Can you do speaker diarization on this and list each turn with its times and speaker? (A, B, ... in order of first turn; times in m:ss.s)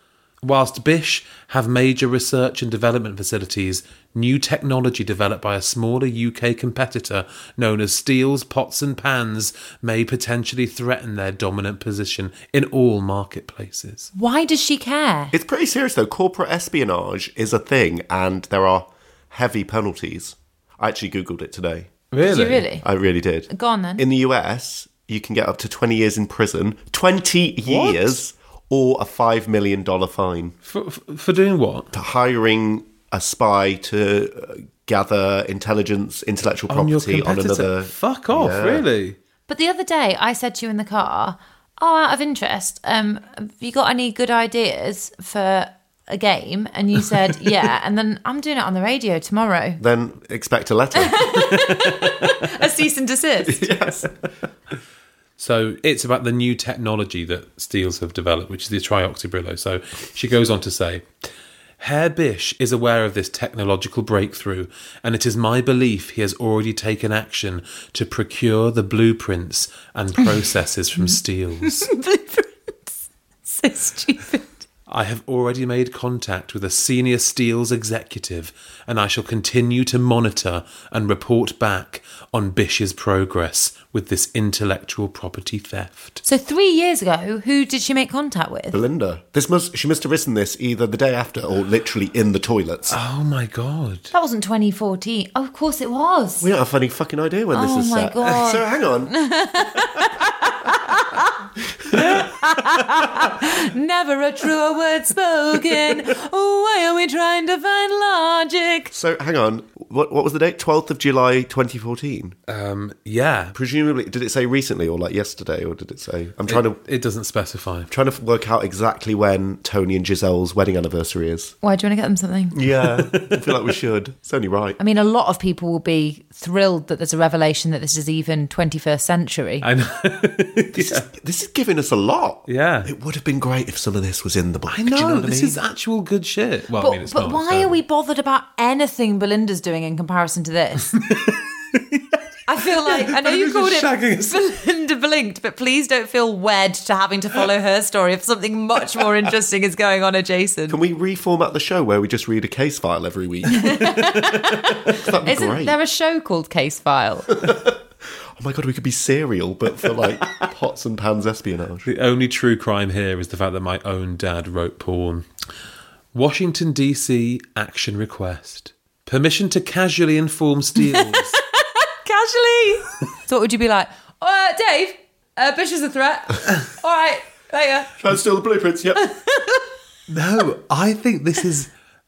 0:00.4-0:14.1 A
0:14.2-0:15.3 B
0:15.3-0:22.0 C
0:22.1-0:22.6 A
0:22.2-0:22.8 B
0:22.8-0:30.6 C
0:23.5-0:24.0 B
0:27.6-0:28.2 A
0:30.6-0:31.9 A
0:31.9-0:38.9 C
0:36.7-0:39.2 A
0:39.5-0:49.8 B
0:49.8-0:51.6 C
0:51.0-0:53.6 B
0:53.5-0:54.1 C
0:55.4-1:01.1 A
1:01.8-1:11.9 A
1:11.7-1:14.6 B
1:14.9-1:26.2 A
1:26.2-1:28.8 B
1:28.7-1:33.0 C
1:32.9-1:34.1 A
1:34.1-1:36.5 B
1:36.4-1:39.1 C
1:37.5-1:41.3 B
1:41.9-1:48.9 B
1:48.9-1:52.4 C
1:52.5-1:53.6 A
1:53.6-1:56.8 C
1:56.5-1:57.9 A
1:57.9-2:01.6 C
2:01.6-2:02.6 B
2:02.5-2:04.8 C
2:02.8-2:03.6 A
2:04.8-2:09.6 B
2:09.6-2:11.1 A
2:10.7-2:15.6 C
2:12.4-2:12.9 A
2:14.7-2:17.8 A
2:16.8-2:20.9 B
2:21.1-2:22.1 A
2:22.5-2:30.8 B
2:22.9-2:24.4 A
2:30.7-2:33.8 C
2:33.6-2:37.4 B
2:33.8-2:34.7 A
2:34.9-2:35.7 C
2:37.4-2:37.8 C
2:38.4-2:41.9 C
2:41.8-2:45.3 A
2:46.1-2:51.4 A
2:50.9-2:57.9 B
2:58.0-2:59.0 C
2:59.0-2:59.7 B
3:00.1-3:01.7 A